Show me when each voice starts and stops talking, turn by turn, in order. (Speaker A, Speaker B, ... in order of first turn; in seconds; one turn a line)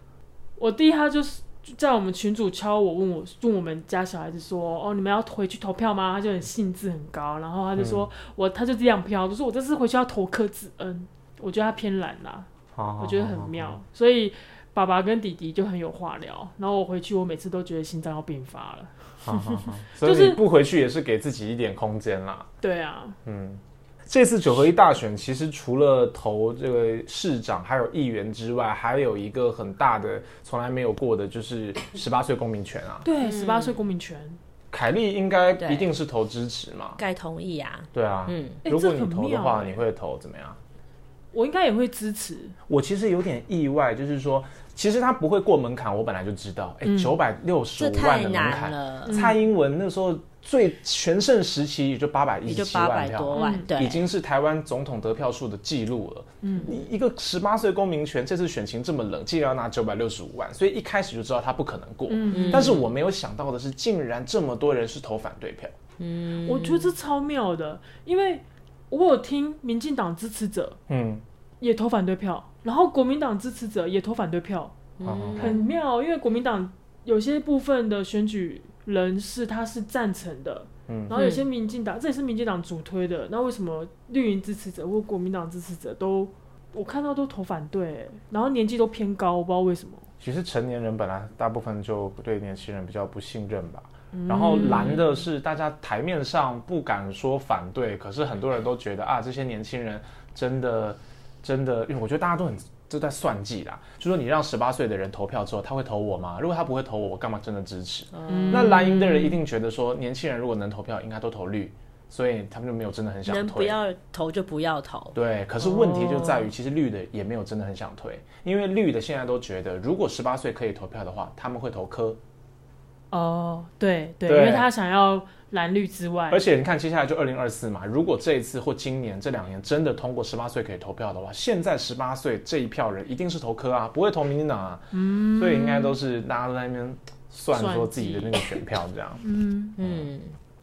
Speaker A: 0.6-12.5
Speaker B: 7.8-8.1
Speaker B: 12.7-13.8
Speaker A: 13.0-20.4
Speaker B: 19.2-22.5
Speaker A: 22.6-23.2
Speaker B: 23.2-33.0
Speaker A: 33.0-34.4
Speaker C: 33.2-33.8
Speaker B: 34.7-37.0
Speaker C: 35.6-35.9
Speaker C: 37.0-38.6
Speaker B: 37.9-40.6
Speaker A: 38.6-39.8
Speaker A: 41.3-42.5
Speaker B: 42.7-65.7
Speaker A: 46.8-47.1
Speaker C: 47.8-49.2
Speaker A: 49.0-49.5
Speaker C: 52.5-54.0
Speaker A: 53.3-53.7
Speaker A: 56.4-56.8
Speaker A: 62.1-62.8
Speaker C: 62.3-62.9
Speaker C: 66.0-66.9
Speaker A: 66.4-70.8
Speaker B: 70.9-71.2
Speaker A: 71.6-74.7
Speaker C: 75.0-75.6
Speaker B: 75.0-75.6
Speaker A: 75.4-90.1
Speaker B: 80.9-81.1
Speaker C: 81.1-81.4
Speaker B: 90.2-113.8
Speaker A: 94.1-95.2
Speaker C: 108.2-108.8
Speaker A: 108.3-109.4
Speaker C: 113.2-115.2
Speaker B: 115.1-122.2
Speaker A: 115.6-116.4
Speaker A: 123.1-126.4
Speaker B: 124.2-124.7
Speaker B: 126.3-139.2
Speaker A: 134.9-136.0
Speaker A: 137.5-138.4
Speaker A: 139.2-139.8
Speaker C: 139.8-140.3
Speaker B: 139.8-140.1